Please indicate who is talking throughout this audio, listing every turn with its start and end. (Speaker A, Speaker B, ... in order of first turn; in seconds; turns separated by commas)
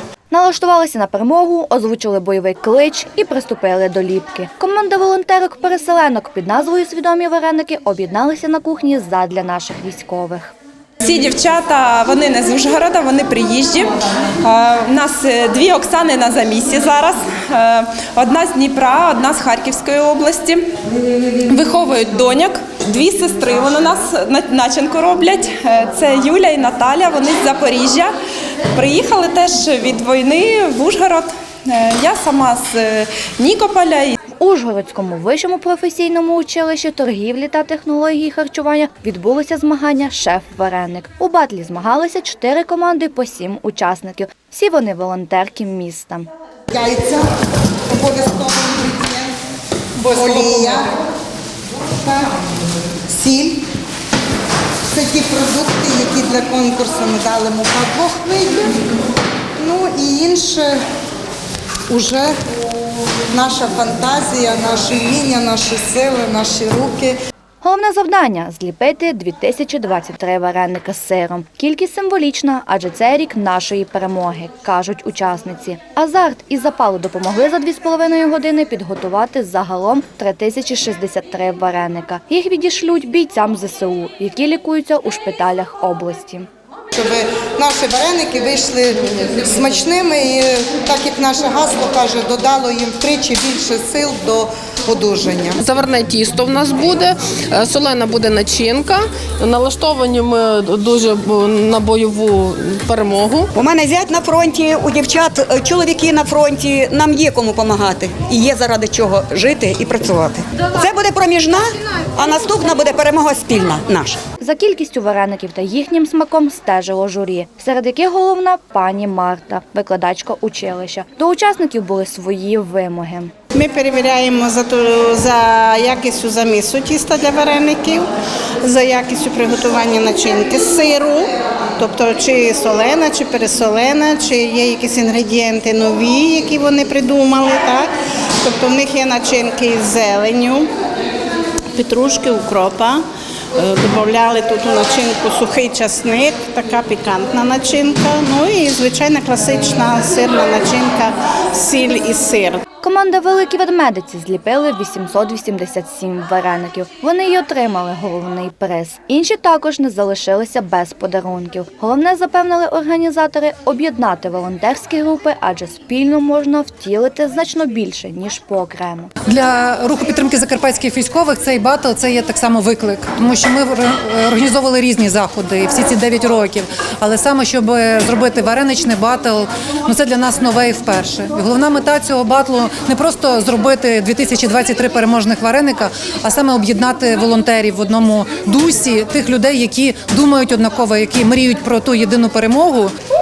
Speaker A: 0.3-10.6, Speaker B: 11.0-20.6, Speaker B: 21.4-28.1, Speaker B: 28.8-34.2, Speaker A: 34.4-46.3, Speaker C: 46.7-47.3, Speaker C: 47.9-49.3, Speaker D: 50.0-50.9, Speaker C: 50.1-50.9, Speaker C: 51.9-53.6, Speaker C: 54.9-58.7, Speaker C: 59.6-60.8, Speaker C: 61.9-62.3, Speaker C: 63.3-67.2, Speaker A: 67.6-86.5, Speaker C: 86.9-95.6, Speaker E: 95.6-103.5, Speaker F: 103.5-114.2, Speaker A: 114.4-123.3, Speaker G: 123.5-128.1, Speaker G: 128.6-140.7, Speaker G: 141.8-143.0, Speaker G: 143.6-152.6, Speaker A: 152.8-169.1, Speaker D: 169.3-192.9